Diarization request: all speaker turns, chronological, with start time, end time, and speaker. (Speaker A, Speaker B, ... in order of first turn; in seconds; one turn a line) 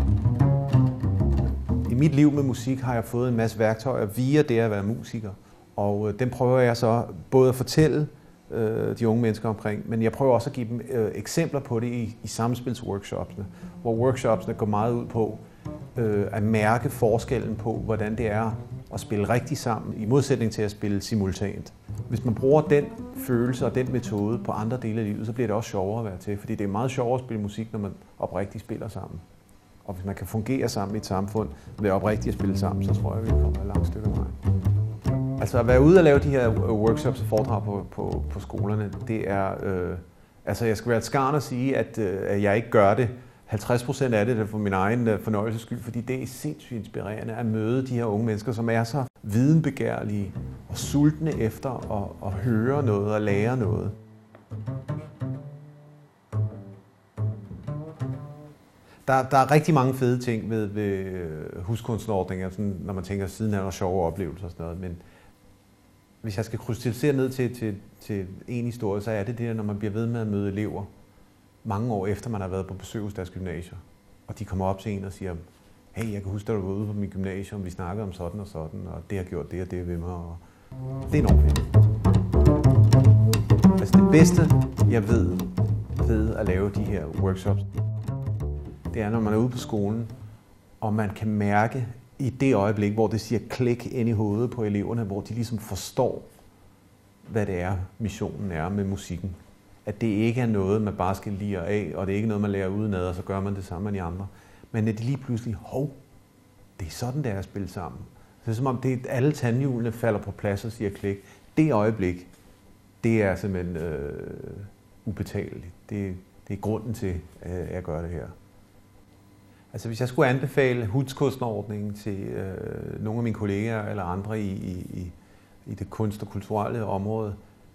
Speaker A: 1.9-15.4
Speaker A: 15.9-29.2
Speaker A: 29.9-34.4
Speaker A: 35.4-54.0
Speaker A: 59.1-65.0
Speaker A: 66.2-70.9
Speaker A: 71.6-75.4
Speaker A: 75.9-80.4
Speaker A: 81.1-81.7
Speaker A: 83.8-87.7
Speaker A: 88.9-90.1
Speaker A: 90.8-96.3
Speaker A: 97.2-106.0
Speaker A: 106.8-112.3
Speaker A: 113.0-118.3
Speaker A: 119.7-127.4